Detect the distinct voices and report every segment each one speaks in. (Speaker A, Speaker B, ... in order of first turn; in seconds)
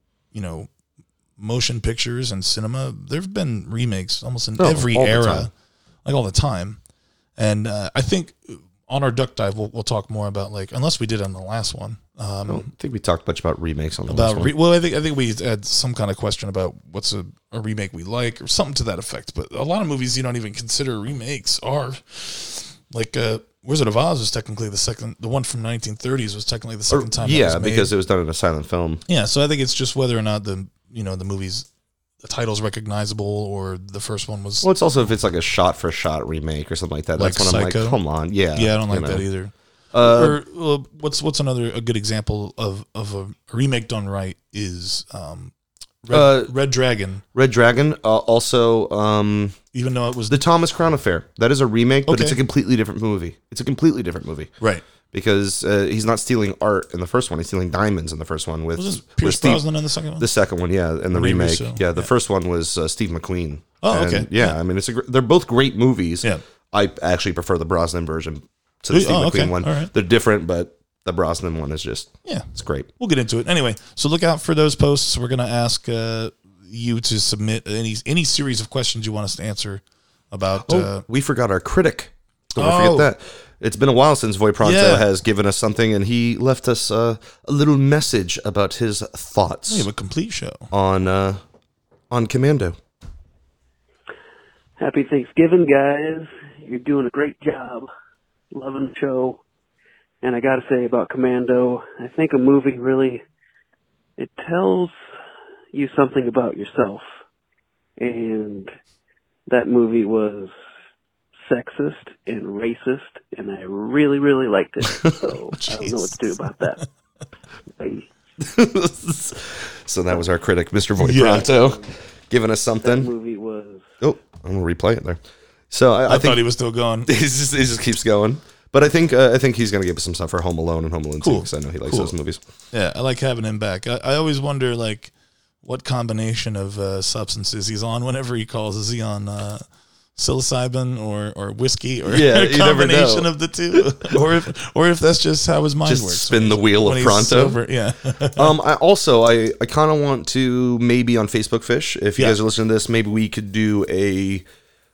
Speaker A: 0.3-0.7, 1.4-5.5, 6.0-6.8, 7.4-12.7, 14.1-27.9, 29.1-31.7, 32.2-34.7, 37.2-38.0, 38.5-45.5, 46.0-47.2, 49.7-50.4, 52.0-52.4, 58.8-60.3, 61.1-62.1, 63.8-64.5, 68.9-69.9, 73.0-81.0, 82.6-83.1, 84.6-85.1, 89.7-90.7, 115.5-116.8, 121.0-121.5, 126.1-127.1, 131.2-132.1, 132.7-135.1, 135.6-139.6, 140.2-148.5
Speaker B: 4.6-5.5, 12.5-14.5, 26.9-29.0, 34.6-39.2, 39.9-40.4, 46.1-46.5, 47.3-49.6, 50.3-54.5, 55.1-59.6, 60.2-72.9, 80.6-89.9, 90.7-91.4, 92.1-92.8, 118.4-123.1, 124.0-125.2, 125.7-126.4, 127.0-132.4, 142.1-144.2, 145.8-147.6, 148.3-154.4
Speaker C: 94.8-97.9, 98.5-99.4, 100.2-103.2, 104.2-104.9, 105.7-107.0, 108.0-108.7, 109.5-110.5, 111.5-116.8, 117.8-118.1, 121.2-121.9, 122.8-123.9